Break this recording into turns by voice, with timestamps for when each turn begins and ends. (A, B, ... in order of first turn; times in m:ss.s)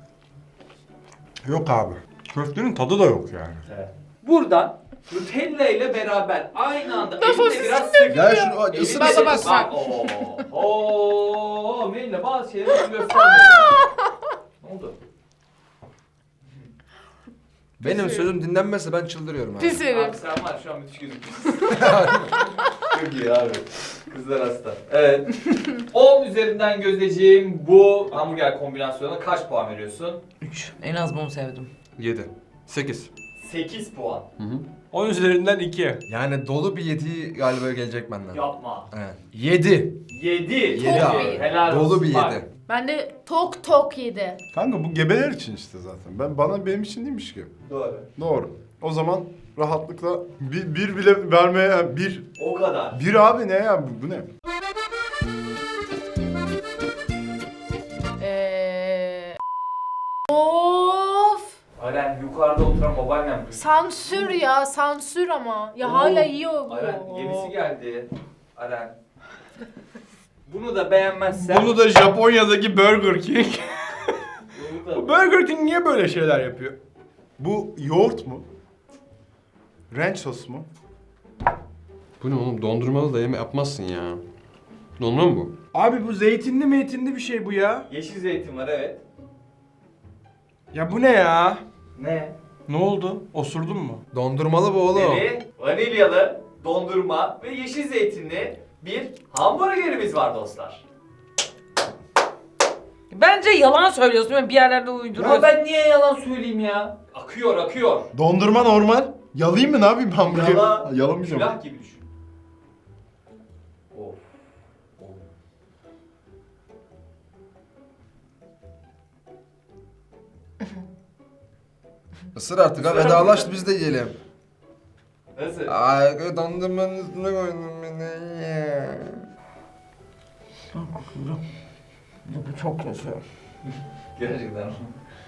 0:01.4-0:03.6 A
0:03.6-0:13.8 B
0:07.0-0:10.4 C
0:08.1-0:09.6 D
0:13.2-0:13.9 C
0:14.6-0:15.0 B
0:17.8-0:19.9 D
0:17.8-0:18.3 C
0:19.6-0:20.2 C
0:19.9-0:21.9 B
0:21.7-0:22.4 D
0:22.8-0:30.2 B
0:30.4-0:31.7 E
0:32.0-0:33.1 F
0:33.4-0:34.3 B
0:34.4-0:34.6 F
0:34.9-0:36.0 A
0:36.1-0:40.0 D
0:38.3-0:38.9 B
0:40.1-0:42.4 B
0:40.6-0:42.5 D
0:40.8-0:41.4 C
0:42.7-0:44.4 C
0:44.5-0:47.5 G
0:47.6-0:48.1 B
0:48.2-0:52.3 G
0:52.4-0:53.0 B
0:52.9-0:54.3 G
0:58.2-0:59.4 C
1:00.3-1:01.5 C
1:01.8-1:03.6 B
1:03.5-1:07.5 C
1:05.8-1:09.0 B
1:10.5-1:11.8 B
1:11.4-1:14.2 A
1:14.5-1:15.3 B
1:14.9-1:16.8 A
1:17.4-1:18.4 G
1:19.9-1:20.7 G
1:22.2-1:24.2 F
1:25.0-1:25.5 F
1:25.7-1:27.9 A
1:27.9-1:29.0 B
1:30.7-1:31.6 A
1:32.0-1:32.4 B
1:32.7-1:34.0 A
1:34.1-1:35.2 D
1:34.9-1:40.8 B
1:43.1-1:45.5 E
1:45.1-1:48.1 B
1:48.1-1:51.5 G
1:50.2-1:52.0 B
1:53.9-1:54.2 B
2:02.3-2:04.2 D
2:02.8-2:03.5 B
2:05.4-2:05.8 B
2:05.7-2:09.2 D
2:10.7-2:11.4 E
2:12.2-2:13.2 E
2:14.2-2:15.0 B